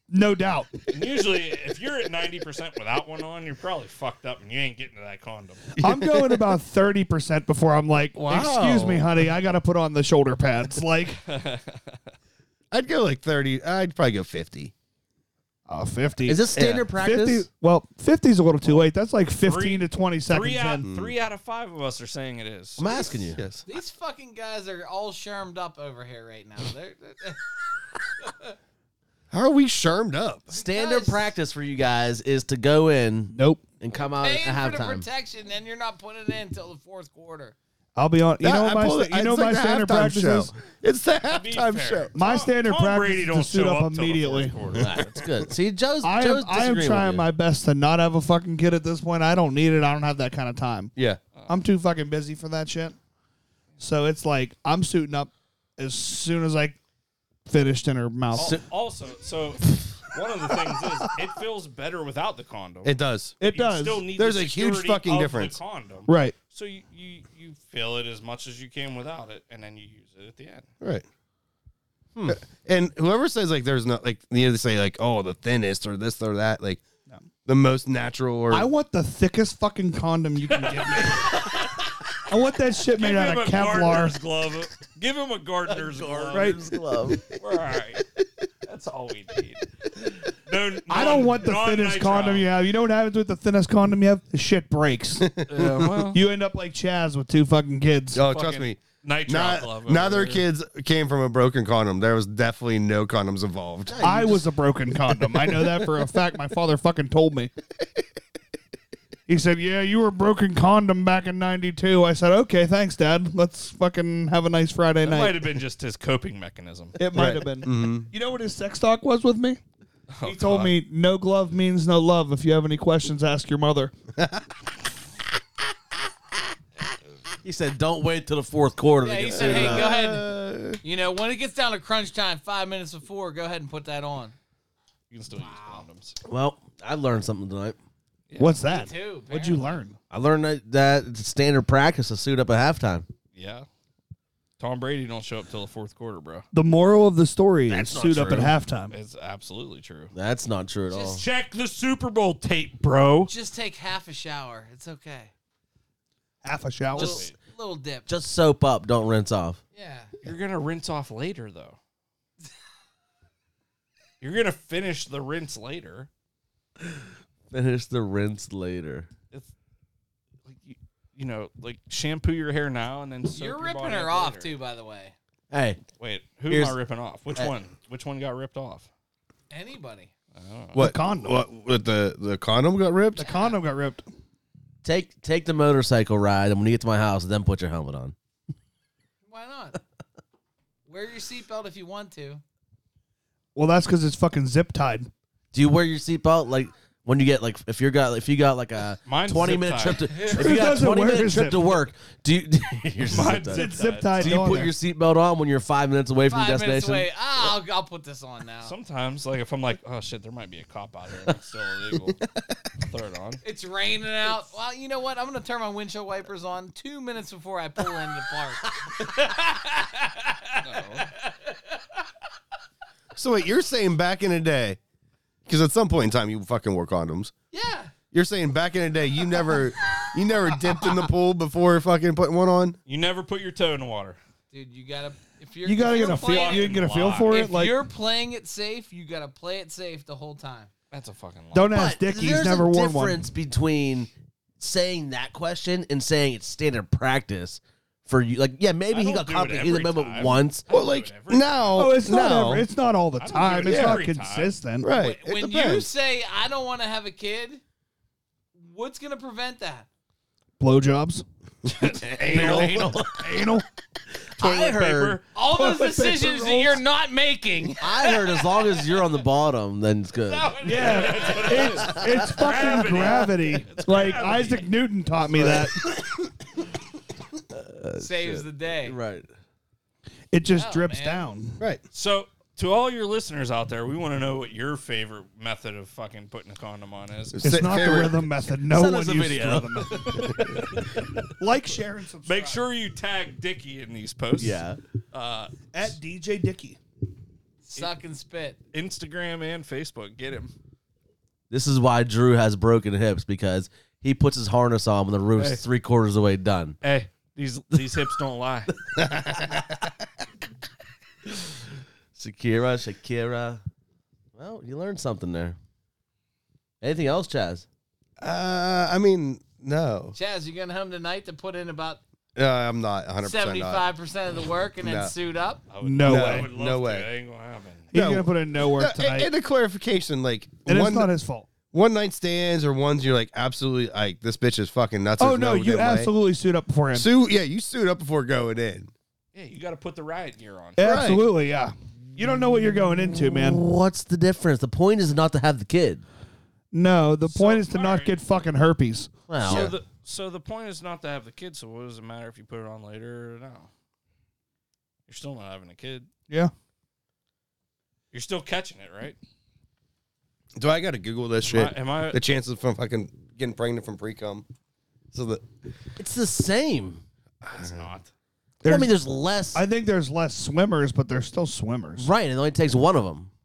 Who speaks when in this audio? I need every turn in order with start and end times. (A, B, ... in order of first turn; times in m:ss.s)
0:00.1-0:00.9 A
0:00.9-0:05.7 B
0:05.8-0:06.4 C
0:05.8-0:11.2 A
0:08.1-0:09.1 C
0:11.3-0:12.0 B
0:12.7-0:14.7 C
0:15.7-0:20.8 A
0:16.2-0:17.4 D
0:16.5-0:16.8 C
0:19.4-0:23.2 B
0:20.8-0:21.1 C
0:22.8-0:23.4 D
0:23.4-0:23.6 C
0:23.6-0:27.4 E
0:28.2-0:28.5 E
0:29.3-0:30.5 C
0:30.5-0:35.0 D
0:30.5-0:31.3 E
0:33.3-0:33.7 A
0:34.1-0:37.5 E
0:38.0-0:40.5 A
0:38.4-0:42.1 C
0:41.3-0:45.2 B
0:42.1-0:44.6 A
0:44.8-0:47.2 D
0:46.0-0:50.9 A
0:50.9-0:51.2 C
0:51.5-0:53.0 A
0:53.8-0:56.8 A
0:57.5-0:58.6 A
0:58.3-1:10.7 B
1:02.8-1:03.3 C
1:03.4-1:04.0 A
1:04.1-1:05.6 C
1:06.1-1:06.3 A
1:10.8-1:11.0 C
1:12.2-1:16.8 C
1:17.4-1:18.7 C
1:18.5-1:21.5 A
1:20.6-1:21.8 B
1:22.3-1:24.2 A
1:22.9-1:26.6 B
1:25.7-1:27.2 D
1:26.3-1:26.6 A
1:27.4-1:28.1 B
1:28.6-1:29.7 B
1:30.3-1:32.5 B
1:30.9-1:35.3 A
1:35.2-1:36.0 C
1:35.5-1:36.2 B
1:36.1-1:38.2 A
1:38.1-1:44.0 C
1:38.2-1:40.4 B
1:43.9-1:44.4 D
1:44.0-1:47.5 A
1:49.3-1:55.5 A
1:55.0-1:57.0 B
1:57.0-1:59.6 A
1:57.1-1:58.1 C
2:00.1-2:00.8 B
2:00.2-2:03.9 A
2:07.4-2:09.9 D
2:09.0-2:14.3 E
2:09.3-2:10.8 C
2:15.1-2:16.2 B
2:15.4-2:15.8 E
2:16.2-2:17.8 D
2:18.3-2:18.6 B
2:18.4-2:20.0 A
2:18.6-2:19.8 E
2:20.1-2:23.0 D
2:23.4-2:23.6 B
2:24.6-2:26.4 B
2:26.5-2:28.9 A
2:27.7-2:28.6 D
2:28.9-2:30.1 B
2:30.1-2:31.2 D
2:30.9-2:33.3 B
2:33.3-2:35.3 E
2:36.4-2:37.3 A
2:36.9-2:37.4 B
2:36.9-2:38.1 E
2:38.1-2:39.6 D
2:39.7-2:40.1 E
2:40.2-2:41.8 B
2:44.2-2:46.1 B
2:47.5-2:49.1 D
2:50.4-2:54.5 B
2:53.3-2:55.1 E
2:55.5-2:55.8 D
2:56.0-2:58.9 B
2:56.5-2:56.8 D
2:59.5-3:00.1 E
3:00.3-3:00.8 B
3:00.7-3:03.3 C
3:00.8-3:01.4 A
3:03.2-3:04.0 A
3:03.2-3:03.5 E
3:04.8-3:08.1 D
3:09.2-3:09.8 E
3:10.9-3:12.4 E
3:13.5-3:15.1 A
3:15.5-3:27.1 D
3:19.0-3:20.2 B
3:20.1-3:20.4 E
3:20.3-3:21.8 A
3:23.0-3:24.5 B
3:23.5-3:24.7 A
3:26.3-3:28.7 E
3:28.6-3:32.2 B
3:32.8-3:33.4 B
3:33.4-3:42.0 E
3:40.6-3:41.1 B
3:43.1-3:44.8 C
3:45.4-3:47.3 C
3:47.5-3:47.9 E
3:48.1-3:52.8 C
3:52.8-3:54.2 B
3:54.5-4:00.7 E
3:55.6-3:57.8 A
3:55.9-3:57.4 B
4:00.9-4:01.7 B
4:01.5-4:03.3 A
4:01.7-4:10.7 D
4:08.9-4:12.0 B
4:10.7-4:12.7 C
4:11.7-4:14.9 A
4:13.2-4:14.6 B
4:13.6-4:14.0 C
4:14.8-4:15.9 C
4:14.9-4:17.6 E
4:18.6-4:19.9 E
4:20.6-4:21.2 A
4:21.6-4:23.0 B
4:22.0-4:23.6 D
4:22.3-4:23.6 A
4:24.4-4:25.2 D
4:24.4-4:25.2 B
4:25.3-4:29.0 E
4:25.4-4:26.8 A
4:27.8-4:30.6 D
4:30.2-4:32.0 E
4:30.6-4:34.7 B
4:30.6-4:35.9 A
4:35.3-4:35.7 D
4:37.5-4:39.3 D
4:38.0-4:39.0 E
4:40.3-4:41.6 A
4:40.5-4:41.3 E
4:41.9-4:47.3 B
4:47.3-4:48.3 C
4:47.4-4:50.6 A
4:48.7-4:50.4 D
4:49.9-4:51.0 B
4:51.4-4:52.6 A
4:52.2-4:54.6 B
4:54.4-4:54.8 D
4:55.1-4:56.0 B
4:55.7-4:56.8 A
4:57.6-4:58.6 E
4:58.7-5:00.5 B
5:01.5-5:06.8 D
5:05.4-5:05.6 B
5:06.8-5:08.7 B
5:12.1-5:13.6 D
5:14.3-5:15.6 D
5:16.8-5:17.6 D
5:18.2-5:20.2 C
5:20.1-5:22.0 E
5:22.4-5:23.9 C
5:23.2-5:25.6 E
5:24.8-5:25.1 C
5:25.7-5:27.9 B
5:25.8-5:26.5 A
5:26.0-5:27.1 C
5:27.9-5:29.3 A
5:27.9-5:31.1 C
5:30.6-5:31.5 A
5:31.7-5:36.1 C
5:35.2-5:37.1 A
5:36.9-5:38.9 C
5:39.3-5:41.0 B
5:40.8-5:43.6 A
5:40.8-5:41.2 C
5:43.3-5:46.0 D
5:46.7-5:49.1 A
5:47.2-5:48.2 B
5:49.3-5:49.8 D
5:49.4-5:53.7 B
5:55.1-5:56.1 B
5:58.1-5:59.2 B
6:00.6-6:04.4 C
6:01.4-6:02.2 B
6:05.1-6:05.4 C
6:06.0-6:07.0 D
6:07.4-6:08.1 B
6:07.5-6:07.8 C
6:08.6-6:09.0 A
6:08.6-6:09.6 D
6:09.5-6:12.1 A
6:12.0-6:13.3 D